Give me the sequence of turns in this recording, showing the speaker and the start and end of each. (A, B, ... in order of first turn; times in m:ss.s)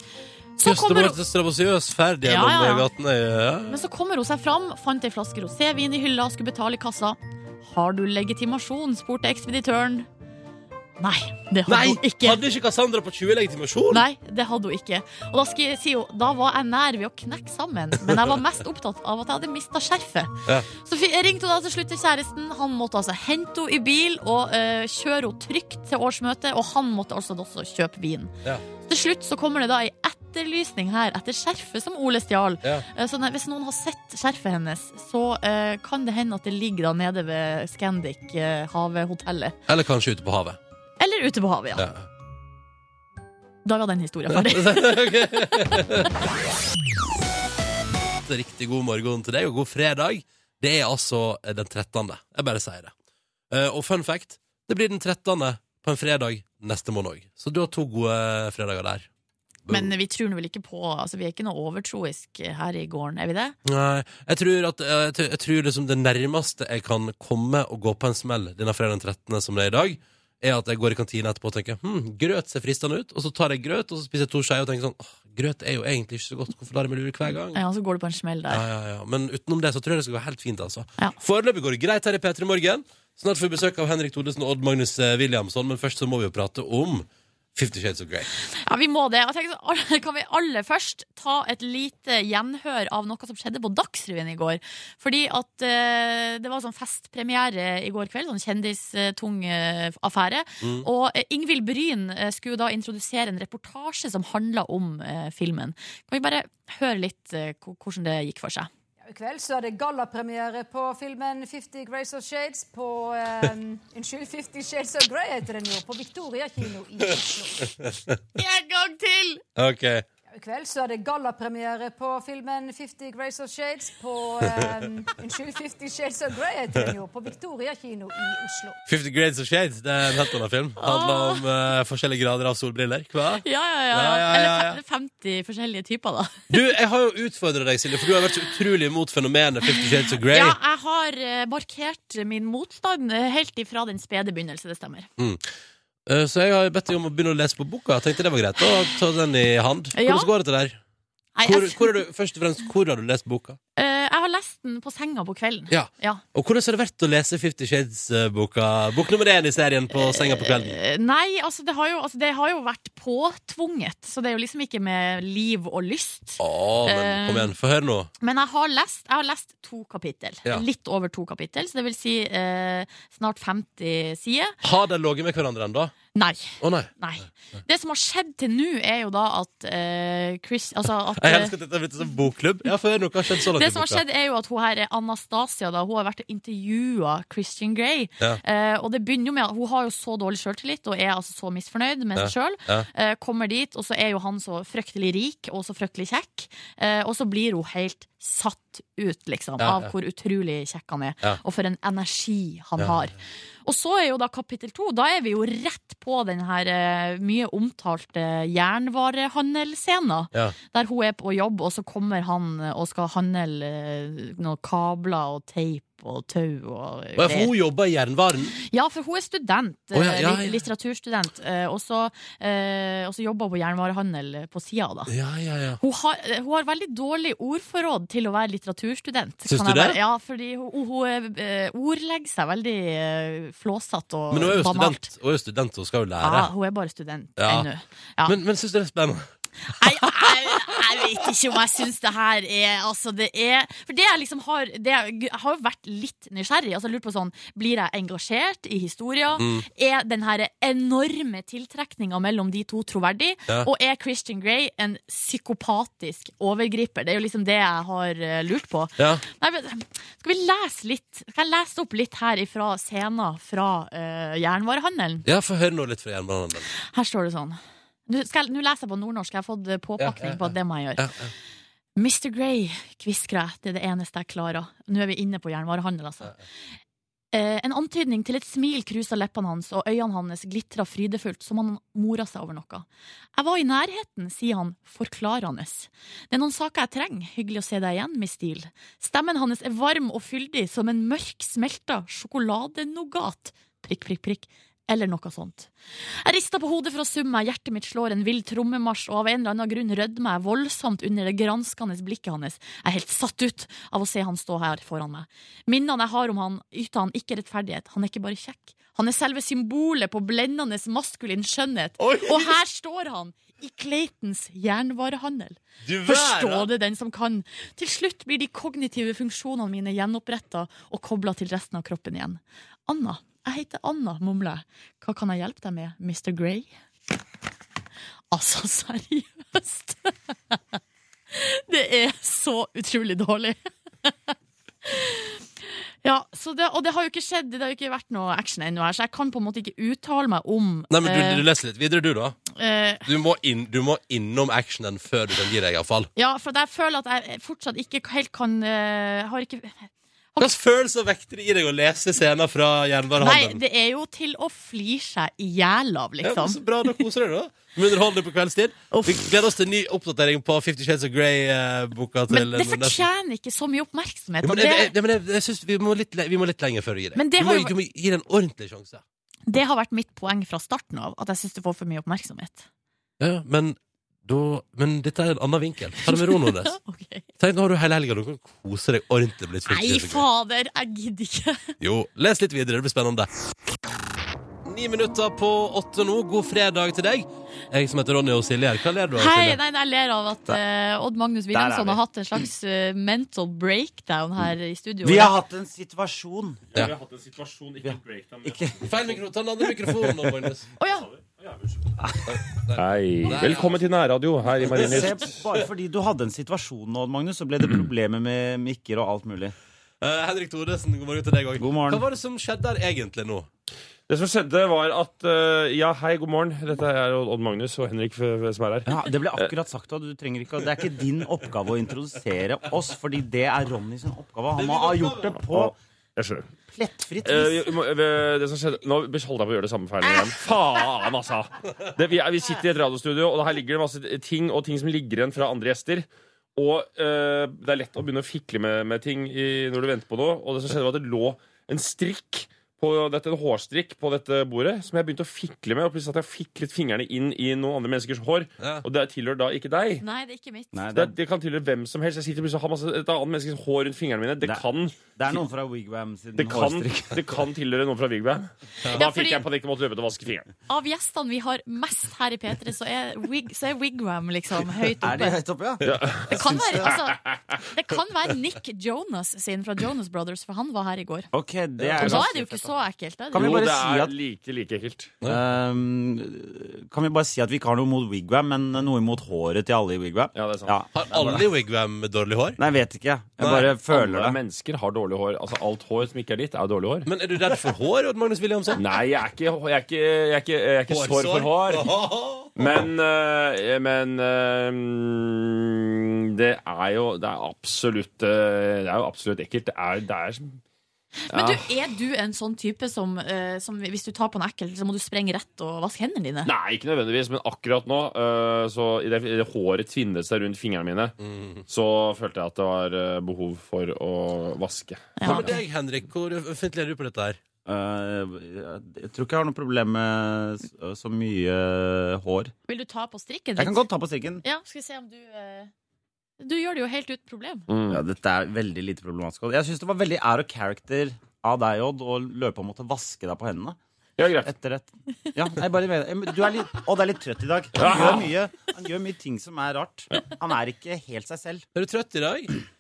0:00.6-0:01.2 A
0:00.6-0:03.8 B
0:02.2-0:02.9 A
0:03.7-0:10.1 A
0:11.0-0:12.4 A
0:11.7-0:14.0 B
0:13.9-0:28.3 A
0:28.8-0:39.6 A
0:39.7-0:40.6 B
0:41.0-0:41.9 A
0:41.8-0:42.1 B
0:43.6-0:46.0 A
0:44.3-0:46.1 B
0:48.2-0:52.9 B
0:53.5-0:59.1 B
0:59.7-0:59.9 B
0:59.7-1:03.6 A
1:03.6-1:17.6 B
1:17.5-1:18.6 A
1:18.5-1:28.3 B
1:28.5-1:48.7 A
1:40.6-1:40.9 B
1:49.0-1:57.8 C
1:57.8-1:58.2 B
1:58.4-1:59.4 A
1:59.6-2:00.0 B
2:00.3-2:08.8 C
2:08.9-2:14.8 B
2:10.8-2:11.4 A
2:13.4-2:16.5 A
2:16.5-2:20.6 B
2:19.8-2:25.1 A
2:25.2-2:25.5 B
2:26.1-2:30.8 B
2:29.9-2:30.3 A
2:31.4-2:32.0 A
2:31.4-2:33.6 B
2:33.8-2:36.2 A
2:35.7-2:40.8 B
2:39.9-2:47.5 A
2:46.4-2:48.1 B
2:48.2-2:54.6 A
2:54.6-2:55.9 B
2:56.2-3:01.5 A
2:56.6-2:56.9 B
3:01.2-3:04.0 B
3:03.5-3:37.5 A
3:12.2-3:12.9 B
3:19.6-3:19.9 B
3:37.2-3:38.6 B
3:38.6-3:45.1 A
3:39.9-3:40.6 B
3:45.1-3:45.8 B
3:45.8-3:55.1 A
3:49.4-3:50.0 B
3:54.3-3:56.5 B
3:56.2-3:58.4 A
3:57.4-3:57.7 B
3:58.2-3:59.2 B
3:59.7-4:25.3 A
3:59.8-4:00.8 B
4:09.4-4:09.7 B
4:19.0-4:19.2 B
4:25.2-4:26.7 B
4:26.8-4:31.1 A
4:30.0-4:31.3 B
4:32.0-4:36.4 A
4:37.3-4:55.7 A
4:56.2-5:26.7 A
5:12.0-5:12.6 B
5:15.8-5:16.7 B
5:28.3-5:30.8 A
5:31.3-5:34.3 A
5:34.8-5:35.4 A
5:36.0-5:41.4 A
5:40.9-5:42.4 B
5:42.5-5:43.1 A
5:43.0-5:46.1 B
5:46.2-5:50.5 A
5:50.4-5:53.6 B
5:53.2-5:57.0 A
5:56.2-6:03.0 B
5:58.9-5:59.3 A
6:02.3-6:04.9 A
6:04.4-6:09.0 B
6:07.2-6:07.7 A
6:09.5-6:12.7 A
6:13.2-6:16.8 B
6:16.0-6:17.3 A
6:17.4-6:20.3 B
6:19.7-6:21.6 A
6:21.8-6:23.3 B
6:24.7-6:29.6 B
6:29.2-6:35.3 A
6:31.5-6:32.0 D
6:35.0-6:36.6 D
6:36.7-6:39.2 E
6:37.8-6:38.9 D
6:38.8-6:40.7 B
6:40.8-6:41.1 A
6:41.0-6:41.7 E
6:42.0-6:42.4 D
6:42.3-6:43.8 B
6:42.8-6:45.4 E
6:44.6-6:45.4 B
6:44.6-6:49.5 D
6:50.0-6:53.5 B
6:51.6-6:52.0 D
6:54.1-6:59.5 E
6:58.9-7:05.7 D
7:04.6-7:05.3 B
7:05.3-7:06.5 E
7:06.7-7:07.6 D
7:07.2-7:30.0 E
7:30.0-7:30.8 A
7:30.7-7:31.2 D
7:30.9-7:35.1 E
7:34.4-7:37.2 D
7:36.4-7:40.5 E
7:38.9-7:39.4 A
7:40.7-7:45.4 A
7:45.0-7:46.9 D
7:45.8-7:47.6 E
7:46.3-7:47.2 A
7:47.7-7:51.3 A
7:51.3-7:52.5 D
7:51.8-7:52.3 E
7:52.0-7:53.6 A
7:53.3-7:54.2 D
7:53.3-7:55.2 E
7:55.2-8:01.4 D
8:00.3-8:01.4 E
8:00.9-8:02.6 B
8:02.6-8:04.4 D
8:03.4-8:03.8 B
8:03.9-8:07.1 E
8:07.1-8:08.8 B
8:08.8-8:11.9 E
8:10.9-8:12.7 B
8:12.6-8:20.6 E
8:21.3-8:26.5 A
8:21.3-8:21.7 E
8:26.4-8:31.2 E
8:31.2-8:31.6 B
8:31.7-8:35.4 E
8:35.2-8:35.6 A
8:35.2-8:37.4 B
8:37.7-8:42.5 D
8:42.7-8:43.9 A
8:43.6-8:44.4 D
8:44.4-8:45.7 A
8:46.4-8:47.7 A
8:47.7-8:48.0 E
8:47.9-8:53.8 D
8:54.2-8:54.5 E
8:54.4-9:01.6 D
8:57.8-8:58.3 E
9:01.8-9:02.5 B